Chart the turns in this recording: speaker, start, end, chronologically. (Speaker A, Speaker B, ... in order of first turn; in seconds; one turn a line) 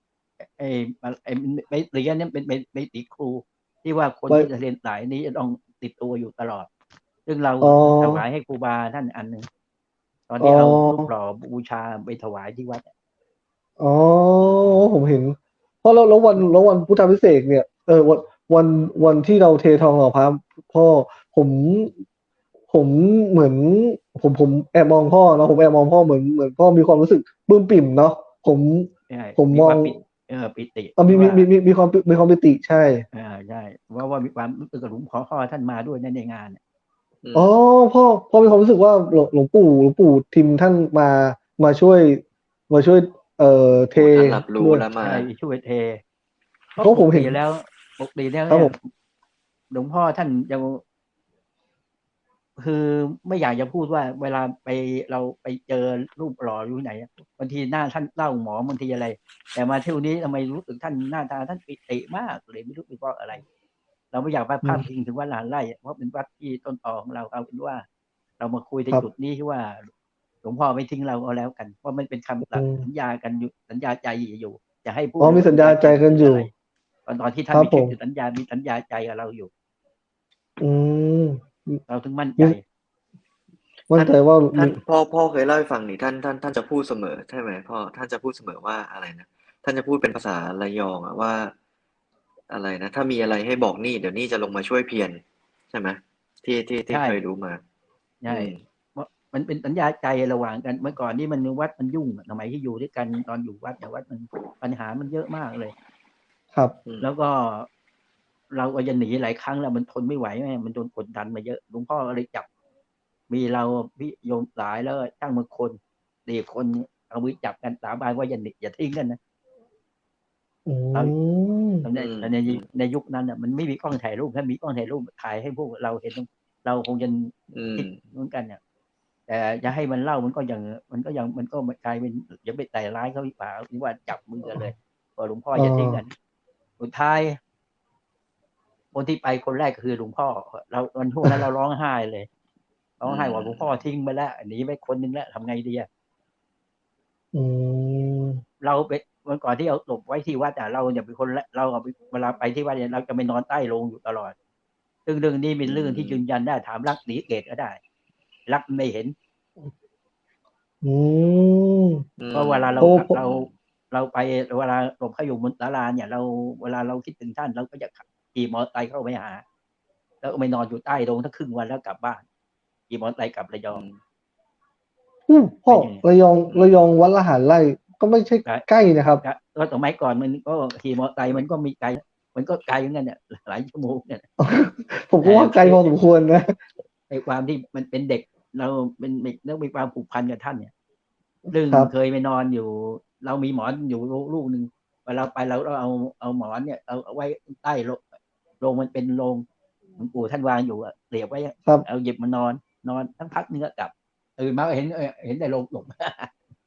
Speaker A: 0.4-6.7
Speaker A: 7.2-9.4
Speaker B: 7.6-8.2
Speaker A: 10.3-12.9
Speaker B: 10.4-11.1
Speaker B: 13.8-21.9
Speaker B: 22.7-29.9
Speaker A: 29.1-31.5
Speaker B: 31.0-33.0
Speaker A: 33.1-36.6
Speaker C: 37.2-37.5
Speaker B: 37.3-44.9
Speaker C: 44.0-45.3
Speaker A: 45.0-46.0
Speaker A: 46.7-48.8
Speaker B: 46.8-47.4
Speaker A: 49.7-50.8
Speaker A: 52.6-63.4
Speaker A: 64.1-67.8
Speaker A: 68.4-69.9
Speaker A: 70.4-76.5
Speaker B: 72.5-72.8
Speaker B: 75.2-76.5
Speaker A: 77.0-79.5
Speaker B: 77.5-77.9
Speaker B: 80.6-81.8
Speaker A: 81.9-82.6
Speaker B: 83.9-84.8
Speaker C: 84.5-91.5
Speaker C: 92.5-97.6
Speaker A: 96.9-97.2
Speaker A: 98.2-105.7
Speaker C: 98.3-98.6
Speaker A: 107.0-107.7
Speaker A: 108.5-112.5
Speaker A: 113.3-119.2
Speaker B: 120.7-121.8
Speaker A: 121.8-128.6
Speaker C: 121.9-122.6
Speaker C: 127.5-127.9
Speaker A: 129.3-136.1
Speaker B: 135.6-136.0
Speaker A: 136.8-137.4
Speaker A: 138.9-142.3
Speaker A: 143.0-145.9
Speaker C: 143.0-143.7
Speaker B: 147.3-148.4
Speaker A: 148.6-154.3
Speaker A: 155.1-157.8
Speaker C: 155.7-156.2
Speaker A: 158.5-159.1
Speaker B: 160.8-162.0
Speaker C: 162.2-163.5
Speaker A: 162.3-169.4
Speaker B: 162.8-163.1
Speaker A: 170.2-172.2
Speaker A: 172.9-173.8
Speaker C: 173.7-174.0
Speaker B: 175.3-179.2
Speaker A: 175.7-176.0
Speaker A: 179.2-184.3
Speaker B: 184.4-186.6
Speaker A: 185.2-185.9
Speaker A: 187.1-190.7
Speaker A: 191.5-198.0
Speaker A: 198.6-199.4
Speaker A: 200.0-206.3